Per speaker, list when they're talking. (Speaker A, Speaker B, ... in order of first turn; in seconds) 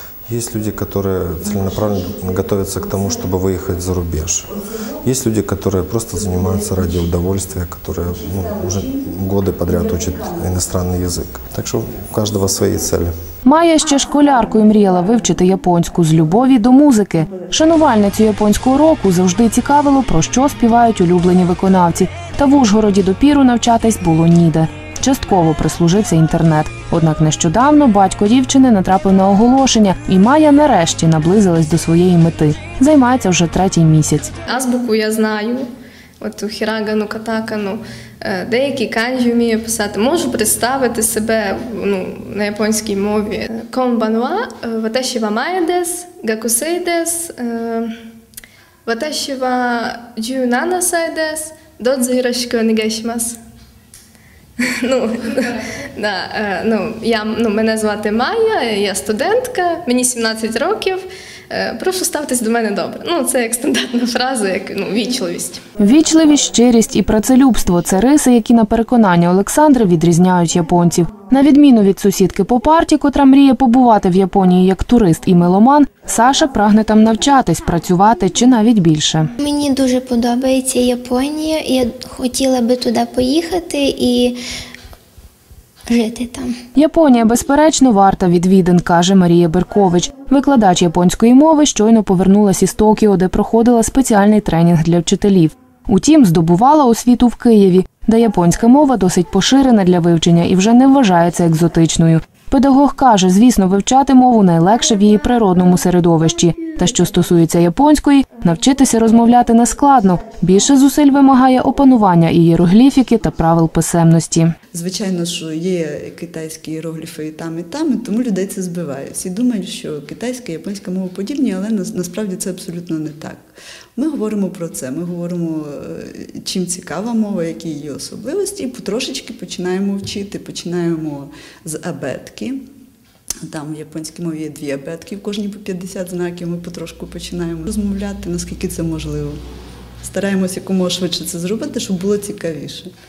Speaker A: 0.3-13.1
Speaker B: 13.4-34.3, 65.8-79.3, 86.8-114.5
Speaker C: 34.5-35.7, 36.2-47.9, 48.8-53.4, 54.6-65.6
Speaker D: 79.4-84.4, 85.9-86.5
Speaker E: 114.7-132.6, 133.4-139.4, 140.0-142.9